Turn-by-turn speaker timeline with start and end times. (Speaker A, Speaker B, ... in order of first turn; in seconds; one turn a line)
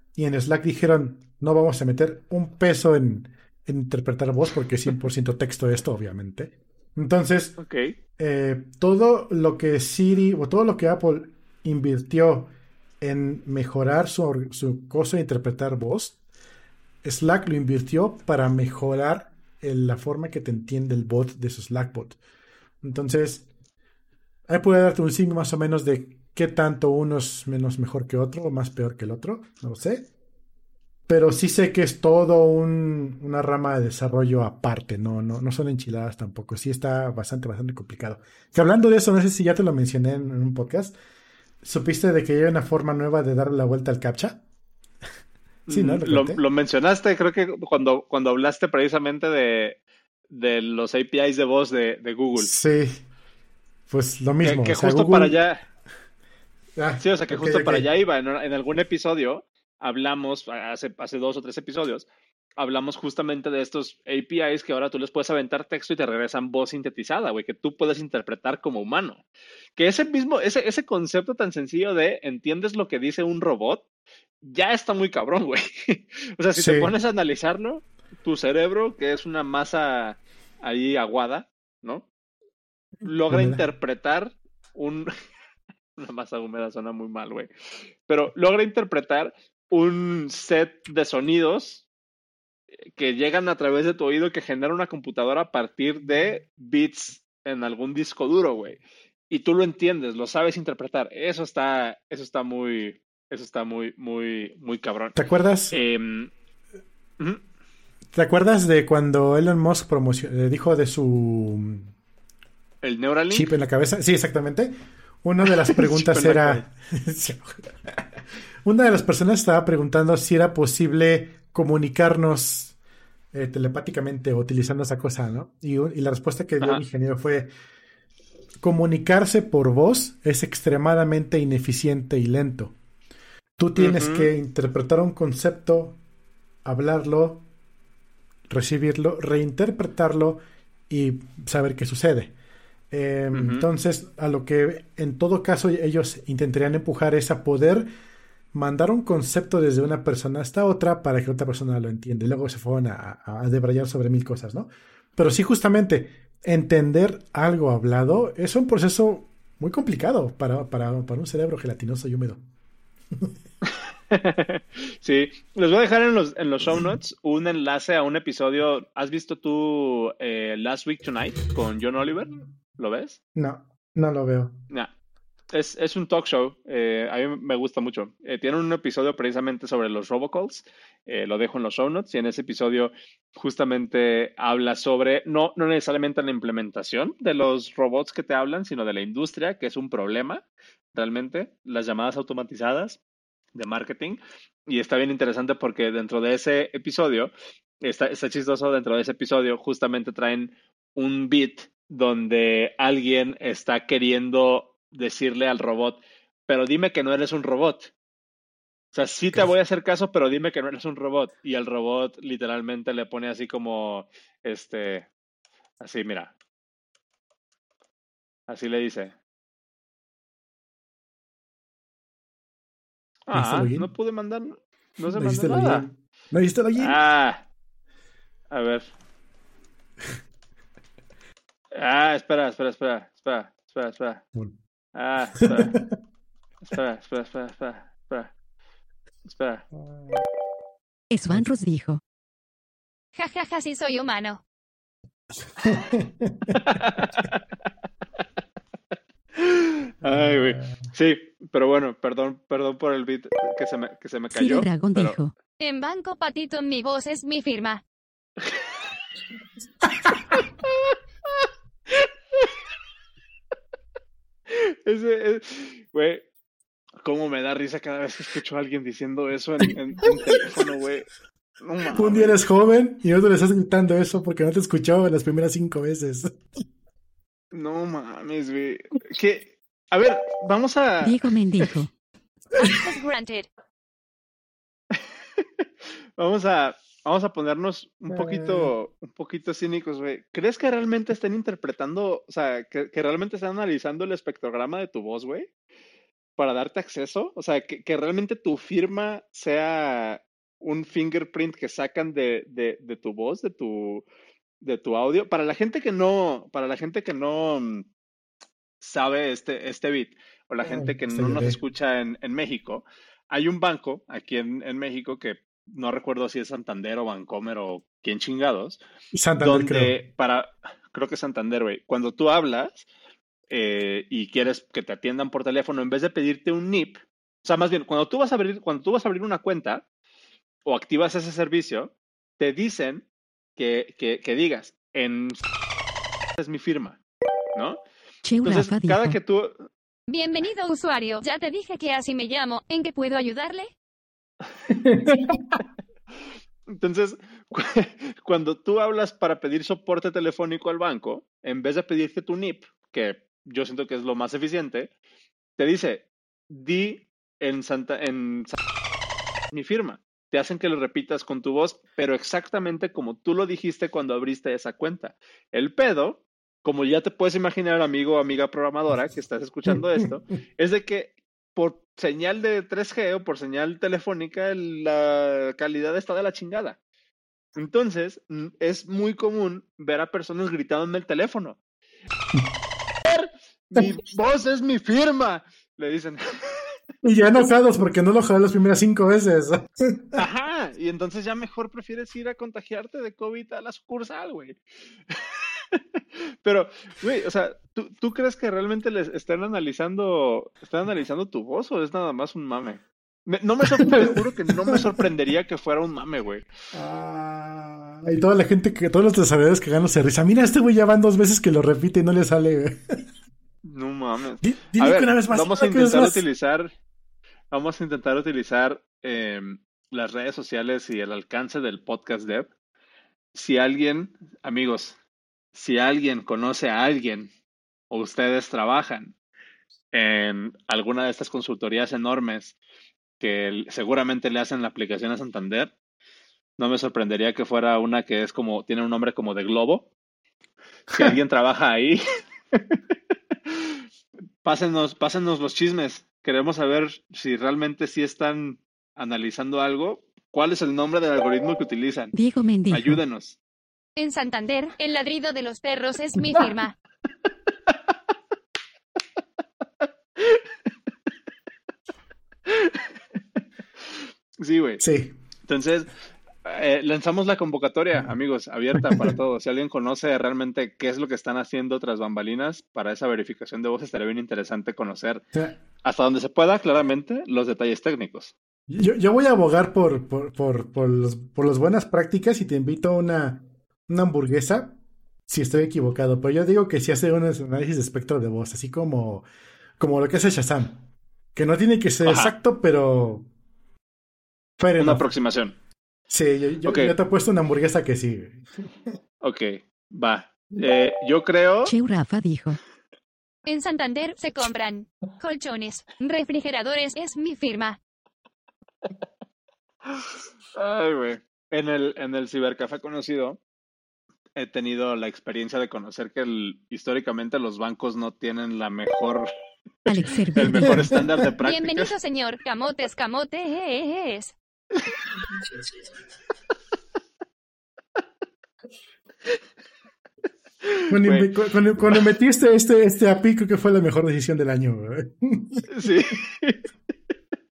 Speaker A: 0.1-7.6
Speaker B: 7.6-8.0
Speaker A: 8.2-16.2
Speaker A: 17.0-22.2
Speaker A: 22.8-23.5
Speaker A: 24.5-30.1
Speaker A: 31.1-41.0
Speaker A: 41.6-44.4
Speaker B: 45.7-49.8
Speaker A: 45.7-46.4
Speaker B: 50.3-52.5
Speaker A: 52.4-53.0
Speaker A: 53.9-55.4
Speaker B: 54.4-55.6
Speaker A: 56.8-57.9
Speaker B: 57.0-69.2
Speaker B: 69.8-73.8
Speaker B: 74.4-82.1
Speaker A: 76.5-76.9
Speaker B: 83.0-85.1
Speaker A: 83.3-83.6
Speaker B: 86.0-87.5
Speaker B: 88.1-91.8
Speaker B: 92.9-105.2
Speaker A: 105.2-105.8
Speaker B: 105.7-106.3
Speaker A: 108.1-111.9
Speaker B: 112.8-113.5
Speaker A: 113.3-118.0
Speaker B: 115.5-116.7
Speaker A: 118.6-122.7
Speaker A: 123.3-127.5
Speaker A: 128.6-132.7
Speaker A: 133.6-136.0
Speaker B: 133.8-134.3
Speaker A: 136.6-137.4
Speaker A: 138.5-142.3
Speaker A: 142.9-147.9
Speaker B: 143.3-143.7
Speaker A: 148.5-162.4
Speaker B: 163.7-173.2
Speaker A: 173.3-174.6
Speaker B: 175.5-193.0
Speaker B: 193.5-207.9
Speaker B: 208.9-215.1
Speaker B: 215.8-216.3
Speaker B: 218.5-219.1
Speaker B: 223.3-225.8
Speaker A: 223.3-223.9
Speaker A: 225.1-227.0
Speaker B: 226.8-227.5
Speaker B: 228.5-228.9
Speaker B: 231.7-234.2
Speaker B: 234.9-235.8
Speaker A: 235.4-235.9
Speaker B: 236.6-238.3
Speaker B: 239.3-239.6
Speaker A: 239.7-240.2
Speaker C: 241.1-242.0
Speaker D: 243.2-244.4
Speaker A: 245.6-246.6
Speaker B: 246.6-247.4
Speaker B: 249.3-255.2
Speaker A: 250.0-250.8
Speaker C: 254.3-255.3
Speaker D: 255.6-257.8
Speaker B: 262.0-262.5
Speaker B: 264.5-266.2
Speaker B: 267.0-272.4
Speaker A: 270.3-270.6
Speaker A: 271.9-276.3
Speaker B: 277.5-281.2
Speaker C: 281.0-281.9
Speaker D: 282.6-283.5
Speaker B: 286.2-295.5
Speaker A: 288.1-288.7
Speaker B: 296.4-304.0
Speaker B: 304.6-307.9
Speaker B: 308.8-318.8
Speaker A: 310.6-311.6
Speaker A: 319.1-319.9
Speaker B: 319.4-322.9
Speaker B: 323.5-329.9
Speaker B: 330.6-335.4
Speaker B: 336.4-337.0
Speaker C: 338.2-339.2
Speaker B: 338.4-339.6
Speaker D: 340.1-343.7
Speaker A: 344.7-345.6
Speaker B: 346.7-354.9
Speaker B: 355.6-358.6
Speaker B: 359.5-376.8
Speaker B: 377.6-381.6
Speaker B: 383.0-386.7
Speaker A: 387.0-390.2
Speaker B: 390.1-394.6
Speaker B: 395.1-406.4
Speaker A: 403.8-404.8
Speaker A: 406.7-413.0
Speaker B: 413.6-416.7
Speaker A: 414.4-416.2
Speaker B: 417.5-422.5
Speaker B: 423.3-425.0
Speaker B: 425.5-427.3
Speaker B: 427.9-429.1
Speaker B: 429.9-432.6
Speaker B: 433.2-435.7
Speaker B: 436.6-439.9
Speaker A: 440.9-441.2
Speaker B: 440.9-442.0
Speaker B: 444.4-452.1
Speaker C: 452.1-453.0
Speaker B: 452.7-453.4
Speaker D: 454.0-456.7
Speaker B: 462.5-462.8
Speaker B: 464.4-464.8
Speaker A: 464.8-465.1
Speaker B: 465.4-465.9
Speaker B: 466.4-475.2
Speaker A: 468.7-469.1
Speaker B: 475.8-478.3
Speaker A: 478.7-484.8
Speaker A: 485.3-489.2
Speaker A: 489.8-490.8
Speaker A: 491.3-493.3
Speaker B: 492.0-492.3
Speaker A: 494.6-495.0
Speaker B: 494.8-495.6
Speaker A: 496.1-498.7
Speaker B: 496.6-496.9
Speaker B: 499.2-501.7
Speaker C: 501.6-502.6
Speaker D: 503.4-507.8
Speaker B: 510.6-513.4
Speaker B: 514.4-519.3
Speaker C: 519.9-521.0
Speaker B: 520.3-521.9
Speaker D: 521.4-524.3
Speaker B: 530.6-531.3
Speaker A: 530.9-535.7
Speaker B: 535.7-536.6